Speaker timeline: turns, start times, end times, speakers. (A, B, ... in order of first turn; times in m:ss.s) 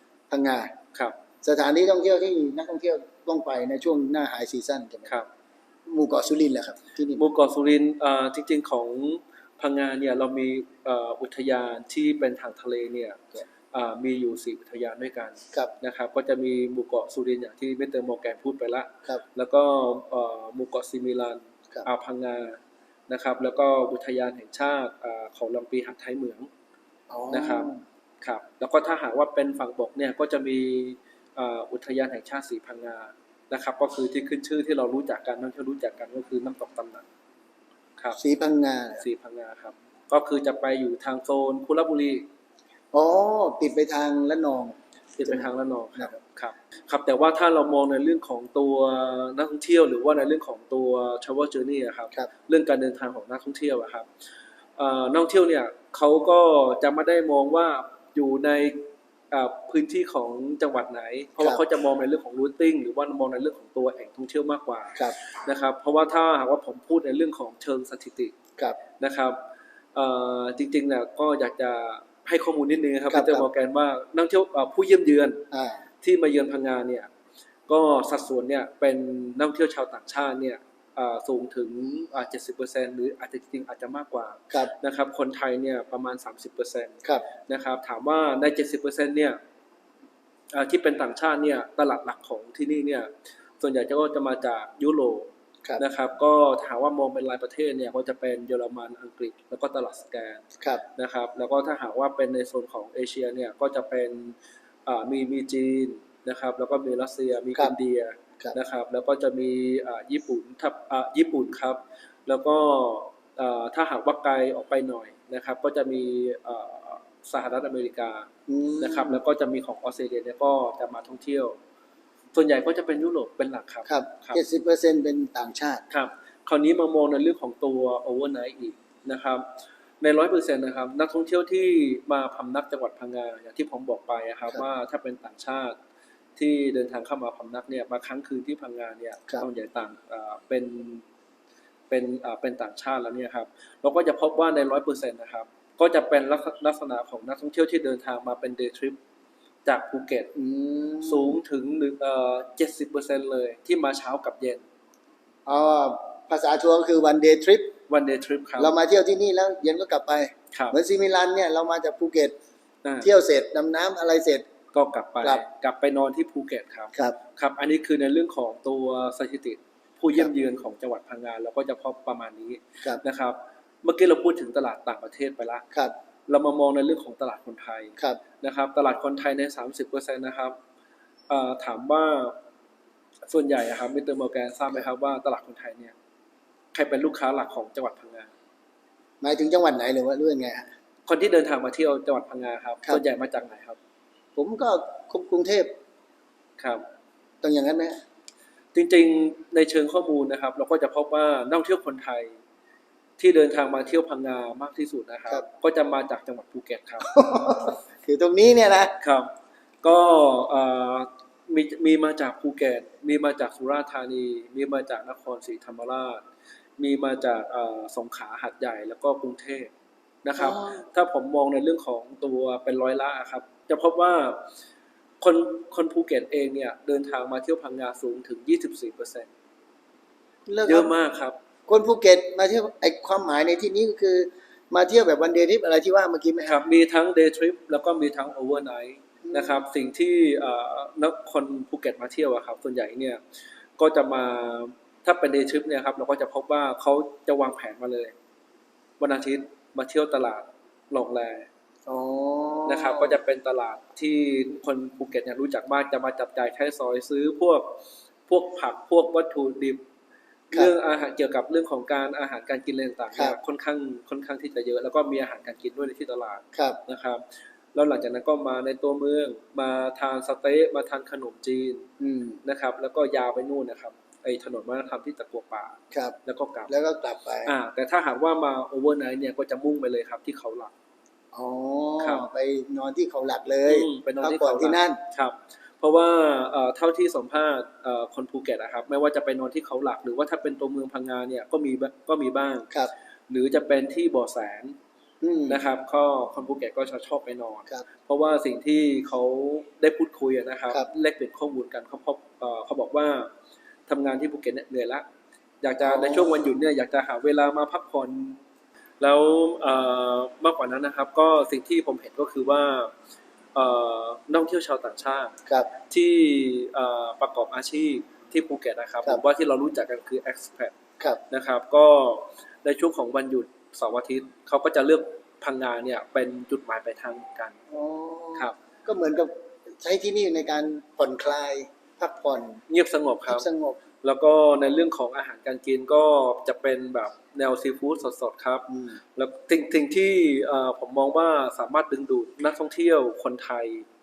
0:00.3-0:00.7 A
0:01.4-0:05.1 A
0:05.9-0:07.2 A
0:07.2-0:26.5 B
0:27.1-0:27.8 A
0:27.3-0:27.7 B
0:28.2-0:37.0 B
0:38.2-0:39.0 A
0:39.0-0:42.3 B
0:42.9-0:46.1 A
0:45.2-0:54.1 B
0:54.8-1:08.3 B
1:09.0-1:09.4 B
1:09.9-1:15.4 B
1:13.1-1:13.5 A
1:15.5-1:15.8 A
1:16.0-1:17.1 B
1:17.7-1:29.4 B
1:30.5-1:33.1 B
1:33.6-1:40.4 B
1:41.0-1:58.3 B
1:58.5-1:59.2 A
1:58.8-2:01.6 B
2:02.3-2:04.4 B
2:03.9-2:05.8 A
2:05.9-2:09.5 B
2:10.0-2:15.8 B
2:16.4-2:21.0 B
2:21.9-2:29.0 B
2:29.6-2:30.3 B
2:30.4-2:31.4 A
2:31.0-2:34.6 B
2:35.4-2:37.7 A
2:37.9-2:38.8 B
2:38.6-2:42.3 A
2:43.0-2:44.4 A
2:44.7-2:55.6 B
2:56.3-3:00.6 B
3:01.3-3:02.4 B
3:03.3-3:05.9 B
3:06.7-3:08.3 B
3:09.2-3:10.7 A
3:11.1-3:13.8 B
3:14.4-3:15.7 A
3:16.6-3:16.8 B
3:17.4-3:18.0 A
3:18.7-3:22.4 B
3:23.2-3:27.1 B
3:27.0-3:28.9 A
3:29.0-3:29.3 B
3:29.8-3:36.2 B
3:36.8-3:39.7 B
3:40.2-3:44.4 B
3:40.4-3:40.9 A
3:45.2-3:49.3 B
3:50.5-3:50.9 A
3:50.7-3:51.4 B
3:51.7-3:56.6 A
3:56.4-4:03.2 B
3:59.2-3:59.6 A
4:03.8-4:08.1 B
4:09.0-4:11.5 B
4:11.9-4:13.2 A
4:12.7-4:19.8 B
4:20.5-4:27.2 B
4:26.5-4:26.8 A
4:27.7-4:31.9 B
4:32.0-4:32.4 A
4:32.4-4:36.7 B
4:36.7-4:37.5 A
4:37.4-4:40.7 B
4:41.3-4:45.0 A
4:42.0-4:42.2 B
4:43.7-4:52.7 B
4:53.3-4:54.8 B
4:55.2-4:55.6 A
4:55.5-5:03.3 B
5:03.9-5:05.0 B
5:05.6-5:08.4 B
5:05.8-5:06.4 A
5:09.0-5:12.9 B
5:13.6-5:15.4 B
5:15.9-5:20.7 B
5:21.3-5:27.6 B
5:27.7-5:32.6 A
5:32.7-5:33.4 B
5:33.3-5:33.8 A
5:34.0-5:43.8 B
5:38.7-5:39.0 A